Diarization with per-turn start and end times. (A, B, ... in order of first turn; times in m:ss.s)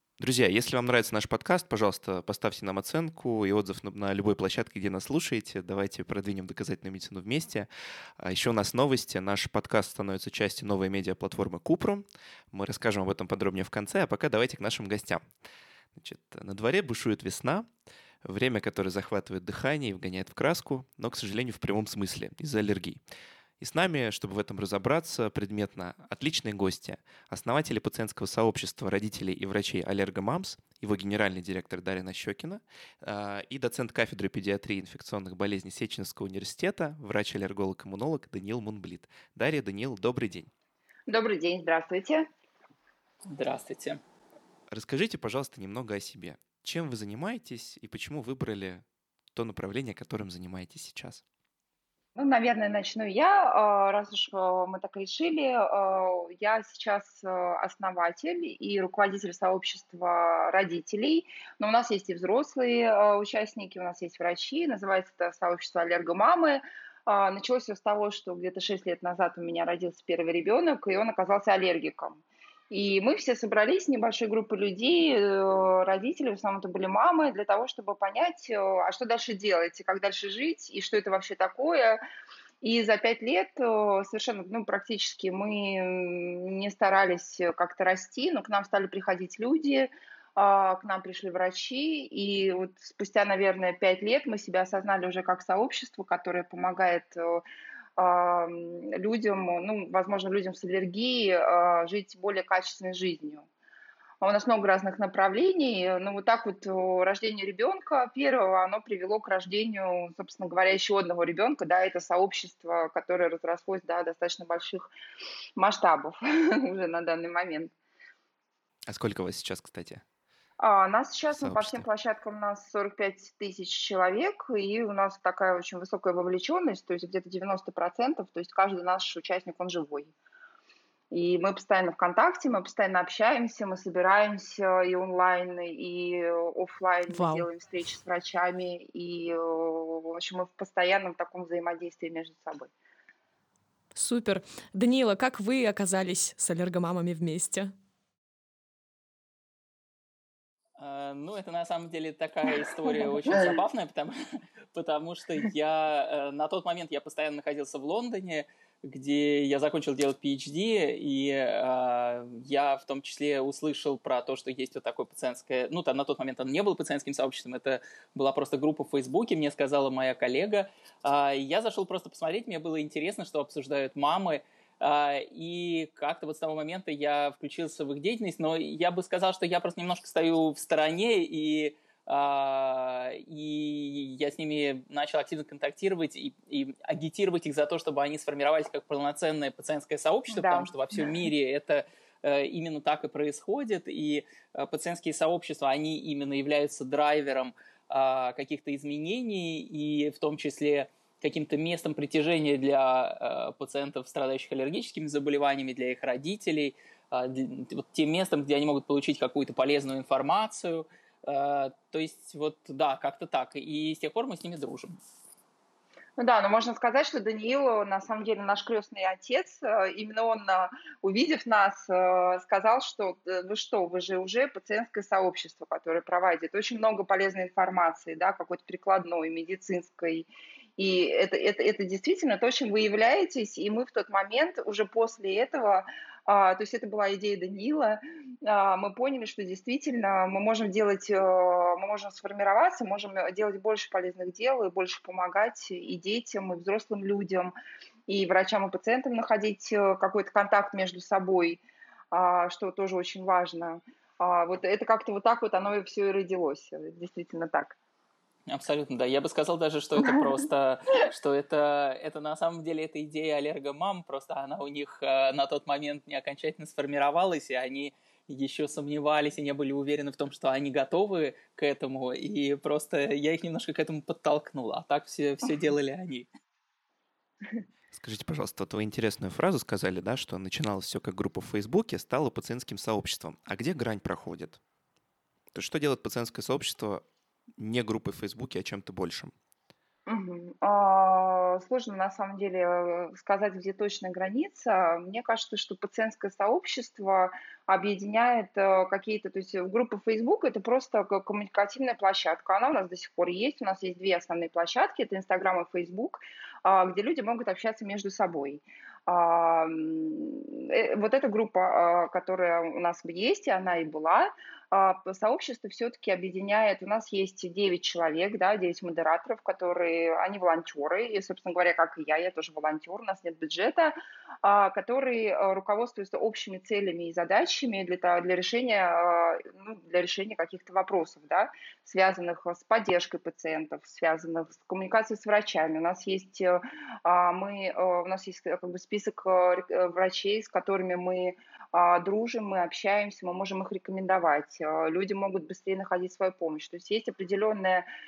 0:00.2-0:15.2 A
0:16.0-0:17.7 A
0:18.2-0:23.0 A
0:23.6-0:40.5 A
0:41.1-0:42.2 B
0:43.3-0:44.0 C
0:44.7-0:51.2 A
0:52.2-1:22.0 B
1:22.6-1:37.4 B
1:38.0-1:43.5 B
1:44.2-1:54.9 B
1:55.6-1:57.7 B
1:58.9-2:00.0 A
2:00.6-2:10.1 B
2:01.3-2:01.8 A
2:11.1-2:22.7 B
2:17.1-2:17.5 D
2:23.9-2:27.7 D
2:30.8-3:35.0 C
3:10.3-3:11.1 B
3:36.2-3:50.3 B
3:50.8-4:07.5 B
4:08.1-4:11.6 B
4:12.1-4:17.7 B
4:18.5-4:36.3 C
4:37.9-4:44.6 A
4:45.5-4:47.0 A
4:47.6-4:49.3 A
4:50.1-5:47.9 B